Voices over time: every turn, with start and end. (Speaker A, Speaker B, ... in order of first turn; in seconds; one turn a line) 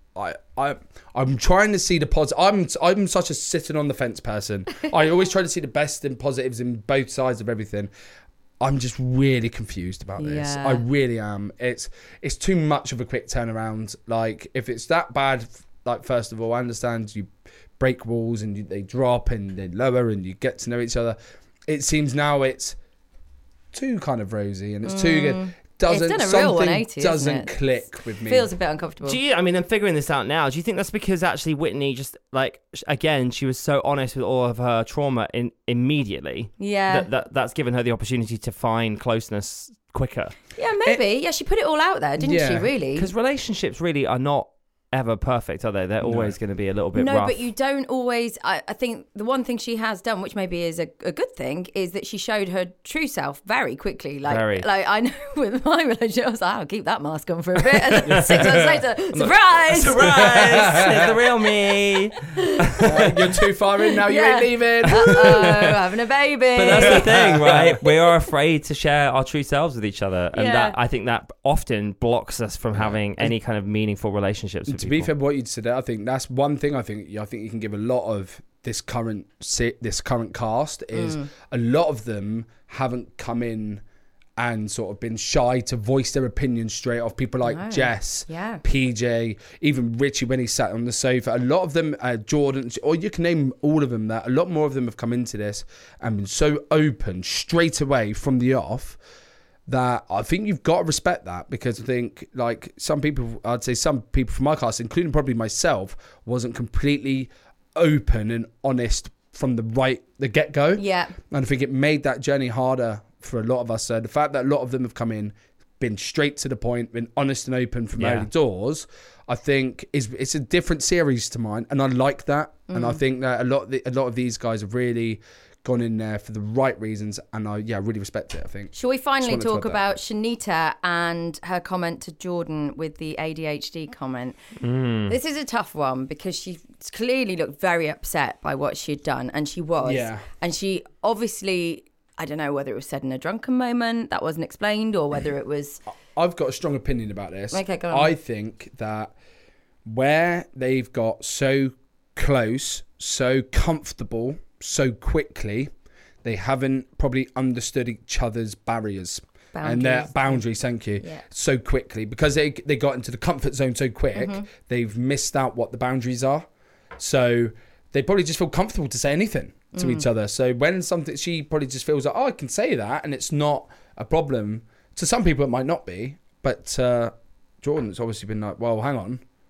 Speaker A: 0.1-7.9
Speaker A: 8.6-22.8
Speaker B: 10.2-10.8
Speaker A: 23.7-28.5
Speaker B: 24.9-27.6
Speaker B: 28.2-29.2
Speaker C: 29.1-40.4
Speaker B: 36.6-37.1
Speaker B: 40.6-43.1
Speaker A: 42.2-42.7
Speaker C: 43.0-47.4
Speaker A: 46.0-46.4
Speaker B: 47.0-60.8
Speaker C: 54.3-54.7
Speaker C: 58.0-58.6
Speaker A: 58.0-58.8
Speaker C: 59.1-63.1
Speaker A: 60.0-61.1
Speaker B: 62.4-62.7
Speaker A: 62.8-65.6
Speaker B: 63.9-68.0
Speaker C: 64.9-65.7
Speaker C: 66.6-75.1
Speaker A: 66.8-67.8
Speaker B: 70.3-70.8
Speaker A: 72.7-73.3
Speaker A: 74.7-83.8
Speaker B: 80.9-81.3
Speaker A: 84.4-99.0
Speaker B: 87.5-88.6
Speaker A: 99.7-129.8
Speaker B: 110.8-111.2
Speaker C: 118.0-118.3
Speaker B: 122.7-123.0
Speaker B: 128.7-134.4
Speaker C: 134.6-135.2
Speaker B: 135.1-145.8
Speaker A: 139.8-140.3
Speaker A: 146.2-149.2
Speaker B: 147.5-148.1
Speaker A: 149.9-155.7
Speaker A: 156.2-179.2
Speaker B: 159.5-160.4
Speaker B: 164.1-164.5
Speaker B: 169.7-170.1